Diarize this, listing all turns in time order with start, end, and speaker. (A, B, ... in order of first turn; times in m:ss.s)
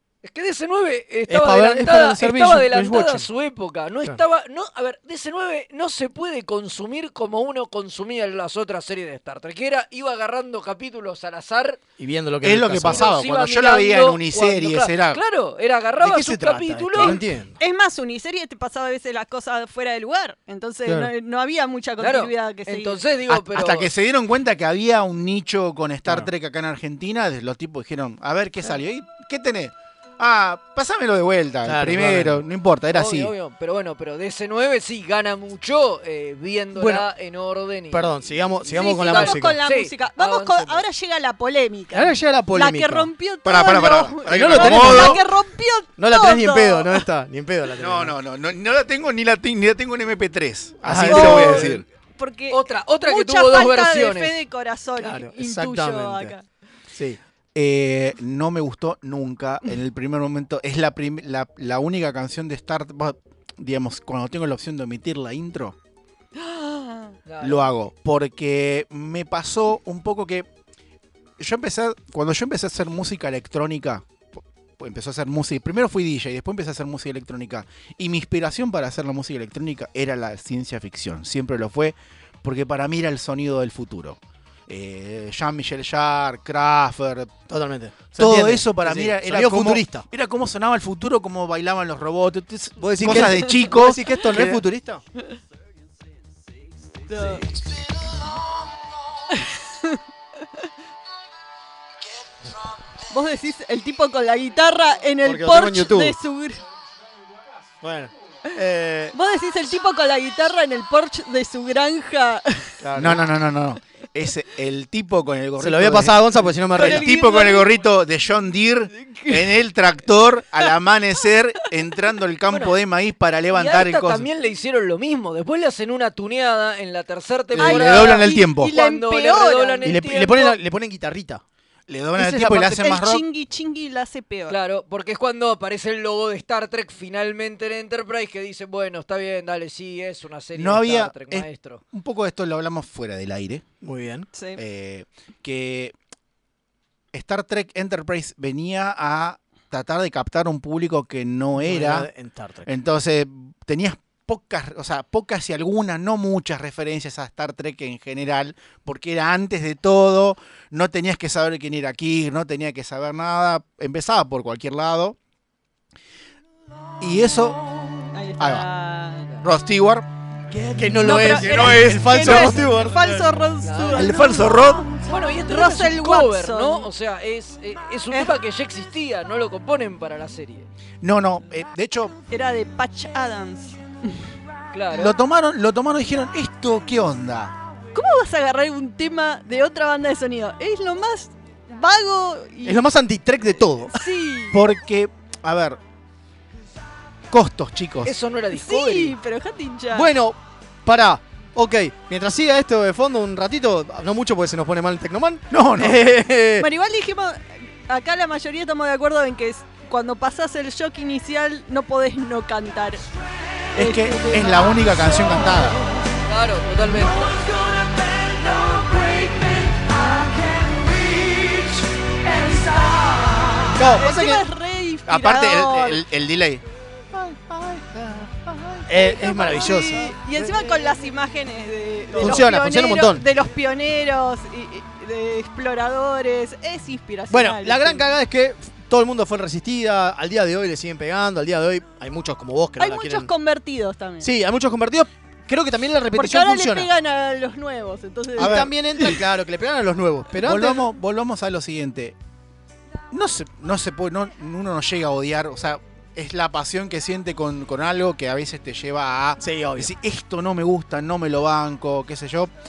0:00.2-0:11.8 A
0:01.3-0:03.3 B
0:12.0-0:13.1 B
0:12.4-0:15.2 C
0:12.8-0:17.2 A
0:16.0-0:17.6 B
0:17.0-0:23.0 D
0:20.8-0:21.1 B
0:22.0-0:23.9 A
0:23.3-0:33.3 C
0:31.6-0:32.4 B
0:32.9-0:40.8 A
0:36.8-0:37.1 B
0:37.9-0:39.6 B
0:38.7-0:47.0 D
0:41.9-0:43.1 B
0:43.4-0:45.2 C
0:44.3-0:45.2 B
0:46.0-0:48.2 B
0:47.8-0:51.9 C
0:50.8-0:51.8 B
0:51.0-0:56.4 D
0:52.5-0:54.4 A
0:55.0-0:56.4 B
0:56.9-0:57.2 B
0:57.6-1:05.8 C
1:06.4-1:07.2 D
1:07.3-1:07.6 A
1:07.4-1:10.5 C
1:11.4-1:14.1 C
1:14.8-1:27.4 C
1:27.5-1:30.1 B
1:28.2-1:34.6 C
1:32.8-1:35.0 B
1:37.1-1:37.4 D
1:39.3-1:40.0 D
1:43.1-1:46.6 D
1:45.2-1:46.2 B
1:47.8-1:49.2 B
1:49.1-1:52.8 D
1:52.8-1:53.3 B
1:53.0-2:04.3 C
1:55.6-1:57.1 B
1:56.8-1:57.7 D
1:59.0-1:59.4 D
2:02.5-2:02.7 A
2:03.5-2:10.6 A
2:07.5-2:08.8 C
2:07.6-2:09.9 D
2:09.8-2:11.4 B
2:11.9-2:13.3 C
2:12.2-2:14.6 D
2:14.5-2:21.8 A
2:20.6-2:23.6 C
2:23.8-2:24.3 B
2:24.3-2:24.6 D
2:24.6-2:25.9 C
2:27.1-2:32.1 C
2:31.6-2:32.8 B
2:32.7-2:45.2 C
2:47.0-2:47.8 C
2:48.1-2:49.4 D
2:48.4-2:48.7 C
2:49.4-2:50.1 C
2:50.6-2:53.3 B
2:50.8-2:52.6 C
2:51.0-2:56.9 D
2:53.6-2:54.2 A
2:53.9-2:54.9 C
2:55.1-3:00.7 A
2:58.1-2:58.4 D
3:01.0-3:02.2 C
3:02.3-3:04.2 D
3:04.7-3:05.1 A
3:04.9-3:07.6 C
3:07.9-3:12.8 D
3:12.6-3:14.1 B
3:13.9-3:14.6 D
3:14.5-3:15.8 C
3:17.3-3:18.1 C
3:18.0-3:19.2 A
3:18.5-3:20.1 D
3:19.9-3:26.7 B
3:25.5-3:26.1 C
3:26.6-3:33.0 D
3:33.8-3:35.7 D
3:33.8-3:35.8 C
3:36.3-3:37.4 A
3:37.3-3:37.9 D
3:38.6-3:46.0 D
3:43.8-3:44.5 B
3:45.1-3:51.0 C
3:48.9-3:50.1 B
3:49.0-3:58.1 D
3:52.2-3:53.3 B
3:52.2-3:52.5 C
3:57.3-4:03.3 B
4:02.8-4:04.3 D
4:04.2-4:06.9 B
4:06.1-4:09.1 D
4:08.3-4:10.9 B
4:08.4-4:08.7 C
4:10.4-4:12.2 C
4:13.1-4:22.5 C
4:19.4-4:19.9 B